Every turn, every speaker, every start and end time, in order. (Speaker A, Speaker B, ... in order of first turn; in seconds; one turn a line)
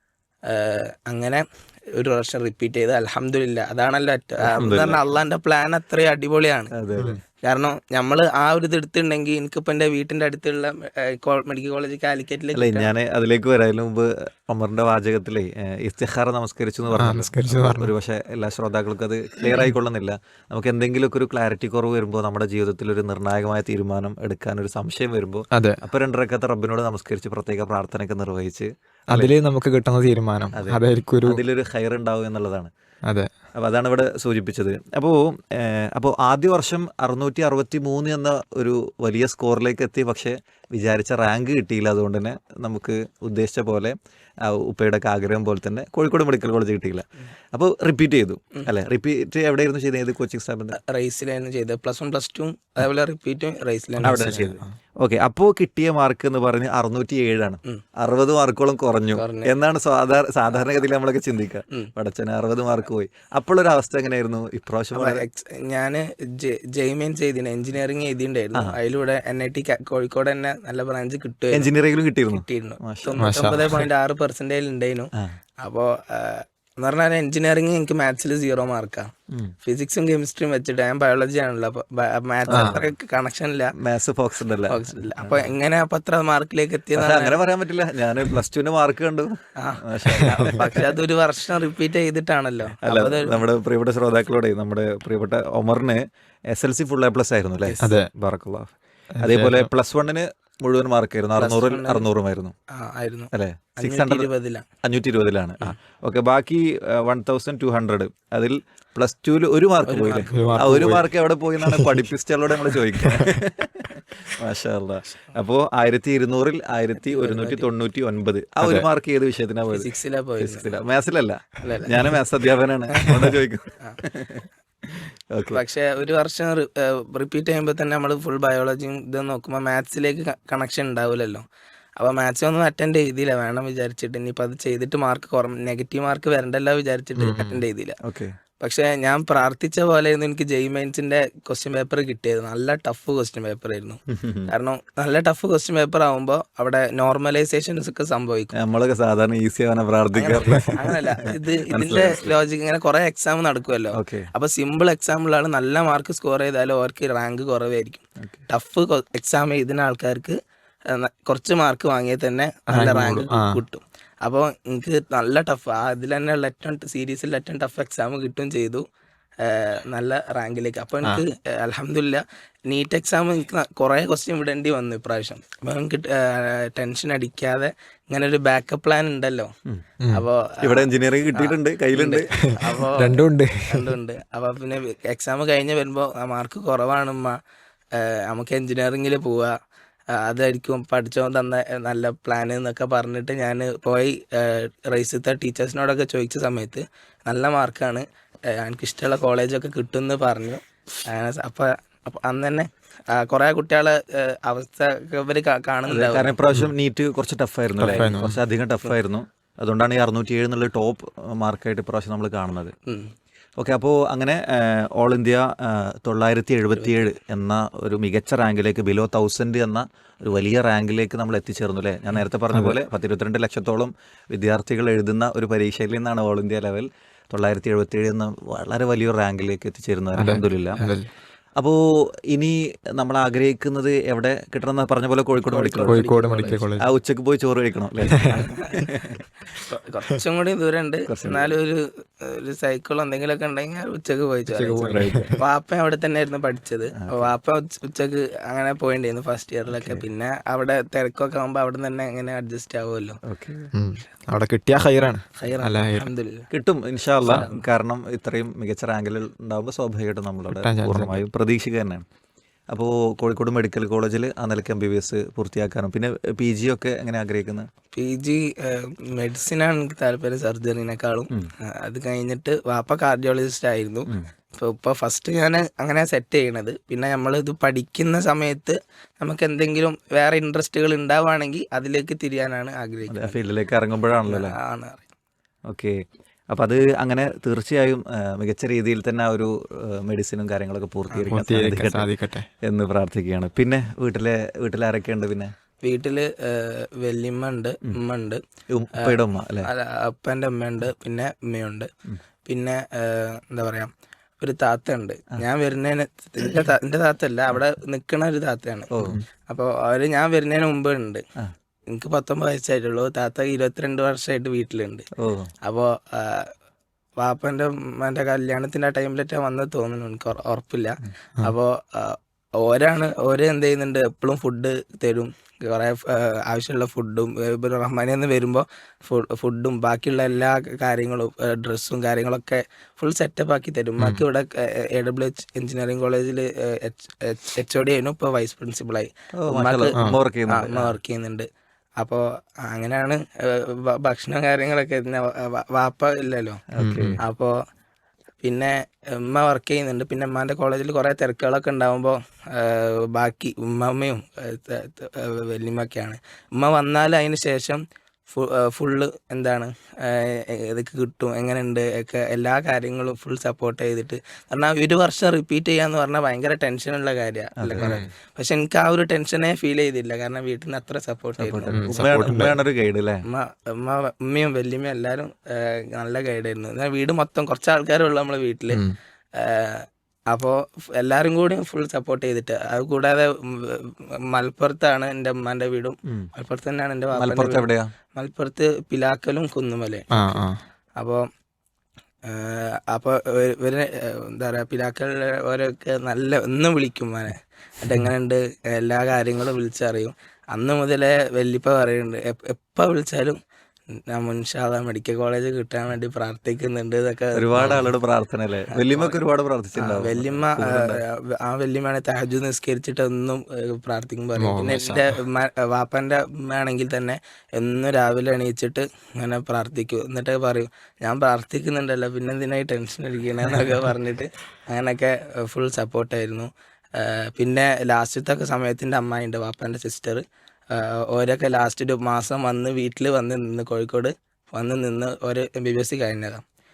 Speaker A: 0.5-6.7
Speaker B: 4.4-5.0
Speaker B: 6.7-7.2
Speaker A: 7.4-12.9
Speaker B: 12.6-29.3
Speaker C: 17.0-17.9
Speaker C: 19.5-19.7
Speaker C: 25.5-25.8
Speaker C: 29.1-31.4
Speaker B: 30.6-32.7
Speaker B: 33.6-44.0
Speaker B: 44.5-50.8
Speaker A: 50.8-54.4
Speaker B: 54.0-65.2
Speaker C: 54.0-54.7
Speaker A: 59.2-59.5
Speaker A: 64.9-71.7
Speaker B: 71.5-73.4
Speaker A: 72.3-79.1
Speaker C: 73.2-73.9
Speaker A: 79.7-83.7
Speaker B: 82.5-82.9
Speaker C: 82.5-82.8
Speaker B: 83.8-85.5
Speaker A: 84.7-87.4
Speaker B: 87.0-91.0
Speaker A: 89.6-93.4
Speaker B: 92.8-102.5
Speaker A: 97.7-98.0
Speaker C: 97.8-98.1
Speaker C: 99.2-99.7
Speaker A: 101.4-102.1
Speaker A: 102.7-104.7
Speaker B: 103.3-104.3
Speaker B: 104.8-119.9
Speaker A: 109.9-110.9
Speaker C: 110.3-111.1
Speaker C: 111.6-112.0
Speaker C: 112.7-113.3
Speaker A: 117.1-117.7
Speaker C: 118.6-118.9
Speaker A: 119.7-120.7
Speaker B: 120.4-125.6
Speaker A: 121.6-122.0
Speaker A: 125.5-131.4
Speaker A: 132.0-138.0
Speaker C: 137.2-137.6
Speaker B: 138.0-138.3
Speaker A: 138.6-148.5
Speaker B: 144.1-144.5
Speaker B: 148.6-152.3
Speaker A: 150.2-168.9
Speaker B: 153.9-154.3
Speaker C: 162.7-163.6
Speaker A: 169.4-179.5
Speaker A: 180.1-187.4
Speaker B: 180.6-182.3
Speaker C: 182.5-183.9
Speaker A: 187.9-189.6
Speaker A: 190.1-206.4
Speaker B: 205.9-212.7
Speaker C: 207.8-208.4
Speaker A: 212.9-213.1
Speaker B: 213.6-230.8
Speaker A: 216.8-217.1
Speaker C: 230.2-231.1
Speaker B: 232.3-236.1
Speaker A: 235.5-236.7
Speaker C: 235.9-236.8
Speaker B: 236.8-239.2
Speaker C: 238.2-238.5
Speaker A: 238.3-238.9
Speaker A: 239.5-253.2
Speaker B: 241.1-241.5
Speaker C: 244.5-245.4
Speaker B: 244.9-245.3
Speaker B: 247.0-247.3
Speaker B: 249.7-250.0
Speaker B: 253.2-253.7
Speaker C: 253.7-256.1
Speaker A: 255.4-256.5
Speaker B: 256.5-262.1
Speaker A: 257.2-257.5
Speaker C: 260.5-261.2
Speaker B: 262.7-267.7
Speaker A: 267.9-283.4
Speaker B: 283.1-284.6
Speaker A: 284.3-285.0
Speaker B: 285.7-286.0
Speaker B: 286.5-292.1
Speaker C: 291.3-292.5
Speaker B: 292.6-295.5
Speaker A: 295.8-298.4
Speaker B: 298.7-299.7
Speaker A: 299.0-301.9
Speaker A: 302.5-311.2
Speaker B: 308.9-309.2
Speaker A: 311.9-315.1
Speaker B: 315.2-315.5
Speaker A: 315.6-316.5
Speaker A: 317.2-340.0
Speaker B: 339.4-340.9
Speaker A: 340.5-341.5
Speaker A: 342.0-346.6
Speaker B: 346.7-347.2
Speaker C: 346.8-347.2
Speaker A: 347.2-347.6
Speaker A: 348.4-372.4
Speaker B: 367.6-368.1
Speaker C: 367.8-368.1
Speaker B: 371.4-373.2
Speaker C: 371.7-372.6
Speaker A: 373.3-378.8
Speaker C: 378.7-379.0
Speaker A: 379.4-390.4
Speaker B: 387.2-387.9
Speaker C: 390.1-390.6
Speaker A: 391.0-391.2
Speaker A: 392.2-403.4
Speaker A: 403.9-407.8
Speaker B: 407.4-411.0
Speaker C: 407.6-407.9
Speaker A: 408.7-409.2
Speaker A: 409.8-436.4
Speaker C: 414.4-415.2